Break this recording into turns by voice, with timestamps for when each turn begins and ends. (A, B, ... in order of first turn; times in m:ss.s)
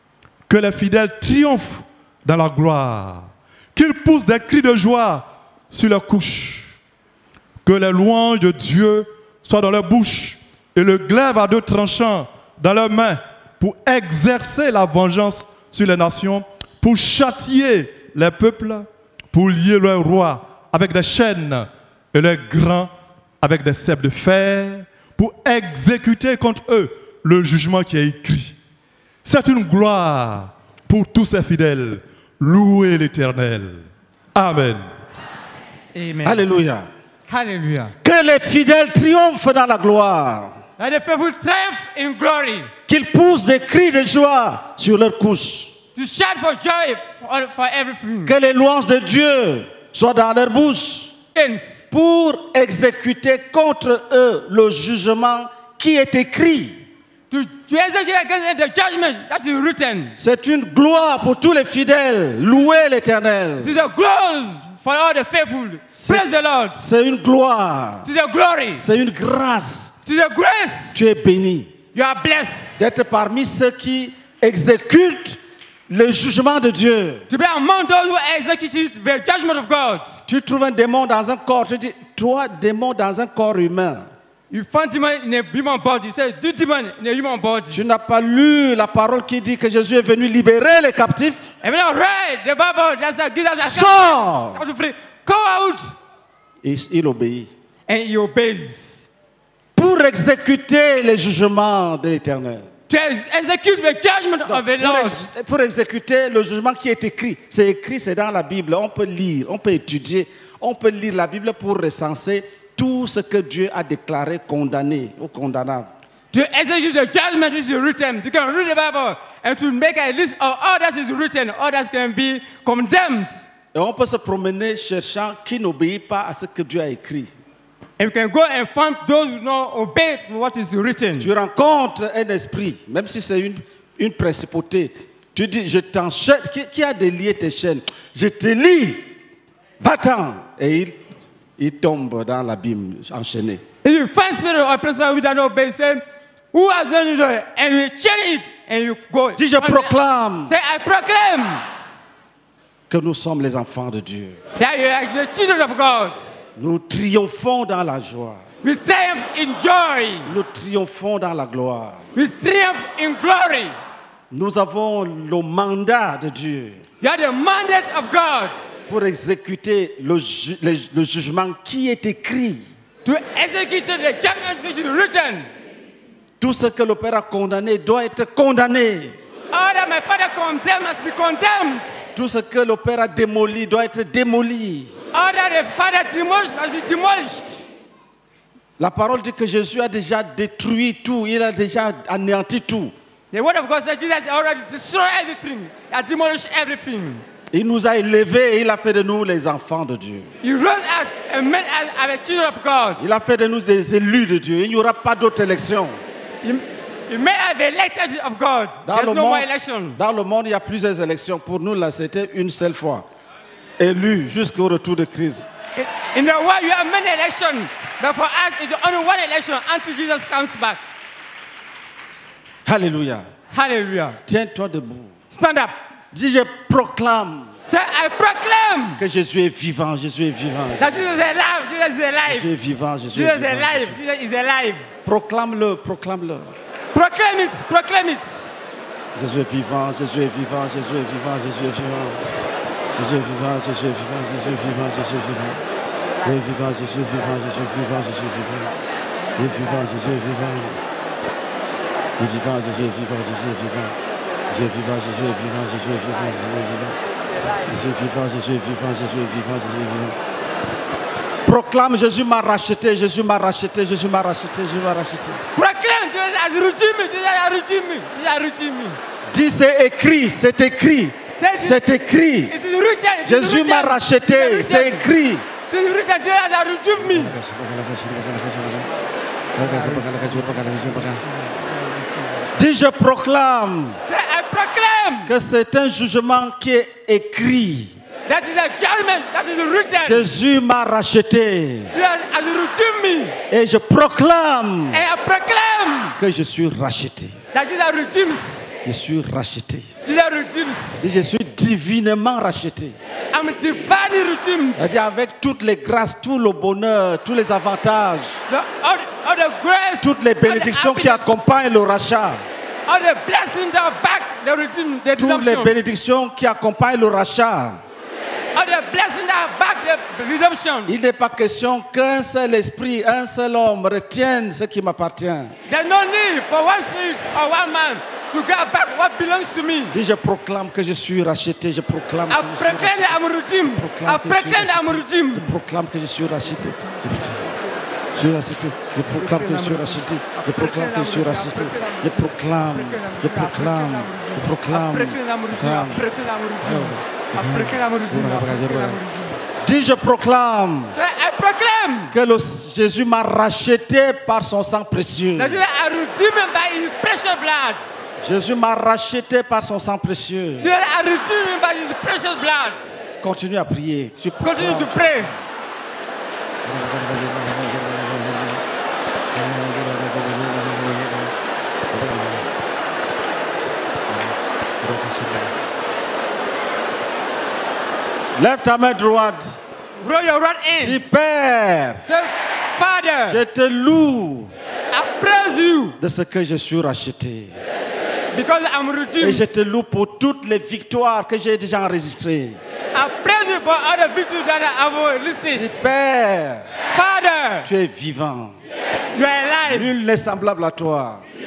0:00.5-0:06.7 A
0:07.6-0:22.9 A
0:23.4-0:28.6 A
0:29.2-0:34.8 A
0:35.9-0:36.4 B
0:36.2-0:36.9 C
0:37.3-0:37.9 B
0:38.0-0:40.6 C
0:40.8-0:42.7 B
0:42.9-0:45.7 C
0:45.9-0:48.3 B
0:48.2-0:51.1 C
0:51.3-0:51.8 B
0:51.9-0:56.8 C
0:57.3-1:00.2 B
1:00.2-1:03.8 C
1:03.6-1:06.8 B
1:05.9-1:06.2 C
1:06.8-1:08.1 C
1:08.0-1:08.8 B
1:08.7-1:09.9 C
1:10.0-1:11.0 B
1:10.9-1:11.7 C
1:11.9-1:12.8 B
1:12.8-1:17.2 C
1:17.3-1:20.2 B
1:20.3-1:24.1 C
1:24.5-1:27.8 B
1:27.7-1:31.5 C
1:31.6-1:35.9 B
1:33.6-1:34.6 C
1:36.6-1:37.5 C
1:37.9-1:39.0 B
1:39.7-1:42.7 C
1:42.9-1:45.3 B
1:44.5-1:55.9 C
1:56.3-2:03.3 B
2:03.7-2:07.3 C
2:08.0-2:11.3 B
2:11.2-2:19.1 C
2:19.8-2:21.0 C
2:21.6-2:23.6 C
2:23.8-2:29.9 B
2:29.4-2:30.5 C
2:30.4-2:31.6 B
2:32.9-2:34.4 C
2:34.6-2:36.3 B
2:36.6-2:38.4 C
2:38.6-2:40.3 B
2:40.2-2:42.0 C
2:42.1-2:43.8 B
2:44.3-2:46.8 C
2:47.0-2:48.6 B
2:48.9-2:52.6 C
2:53.0-2:55.5 B
2:56.4-2:59.2 C
2:59.5-3:02.0 B
3:02.1-3:04.9 C
3:05.1-3:07.6 B
3:08.8-3:12.9 C
3:13.3-3:17.2 B
3:17.5-3:20.3 C
3:20.4-3:23.1 B
3:23.0-3:26.0 C
3:26.4-3:30.0 B
3:28.8-3:33.0 C
3:33.8-3:35.5 C
3:35.8-3:40.8 B
3:42.6-3:43.3 C
3:43.5-3:44.2 B
3:44.2-3:45.1 C
3:45.3-3:45.7 B
3:46.1-3:47.5 C
3:47.7-3:49.0 B
3:49.0-3:51.0 C
3:50.8-3:52.5 B
3:52.3-3:54.0 C
3:53.1-3:54.8 B
3:55.0-3:56.5 C
3:56.9-3:58.5 B
3:59.1-4:02.2 C
4:03.0-4:05.6 C
4:06.2-4:08.7 C
4:09.4-4:10.8 C
4:12.2-4:13.9 C
4:14.5-4:17.0 C
4:17.6-4:20.2 C
4:21.4-4:25.4 C
4:25.5-4:29.0 B
4:29.3-4:32.5 C
4:31.4-4:31.8 B
4:32.5-4:35.1 B
4:33.2-4:35.4 C
4:35.7-4:37.3 B
4:37.0-4:38.9 C
4:39.5-4:41.2 C
4:39.6-4:42.5 B
4:42.5-4:44.0 C
4:44.0-4:45.3 B
4:45.2-4:48.0 C
4:48.3-4:50.3 B
4:50.0-4:51.9 C
4:51.9-4:53.3 B
4:53.5-4:55.0 C
4:54.9-4:56.2 B
4:56.2-4:57.4 C
4:57.5-4:58.8 B
4:58.8-4:59.9 C
5:00.0-5:01.1 B
5:01.0-5:03.0 C
5:03.3-5:04.9 B
5:04.8-5:08.4 C
5:08.5-5:11.3 B
5:10.0-5:12.4 C
5:12.9-5:15.7 B
5:15.2-5:17.8 C
5:18.5-5:20.9 B
5:20.8-5:25.5 C
5:25.7-5:30.0 B
5:29.9-5:33.2 C
5:32.3-5:35.5 B
5:33.7-5:37.5 C
5:38.2-5:46.0 C
5:39.1-5:49.4 B
5:46.6-5:49.0 C
5:49.6-5:51.0 C
5:50.9-5:52.2 B
5:52.1-5:55.6 C
5:55.4-5:58.0 B
5:58.2-6:00.7 C
6:00.6-6:03.0 B
6:03.2-6:05.4 C
6:04.4-6:05.3 B
6:06.6-6:08.6 C
6:09.3-6:11.3 C
6:11.9-6:12.5 C
6:14.1-6:15.5 C
6:18.4-6:19.6 C
6:20.0-6:21.0 B
6:20.8-6:22.0 C
6:22.1-6:23.4 B
6:23.3-6:24.5 C
6:24.9-6:26.0 B
6:26.0-6:27.6 C
6:28.3-6:29.6 B
6:29.2-6:32.6 C
6:32.9-6:35.8 B
6:35.5-6:36.7 C
6:36.9-6:37.7 B
6:37.6-6:38.6 C
6:39.1-6:39.9 B
6:39.7-6:41.2 C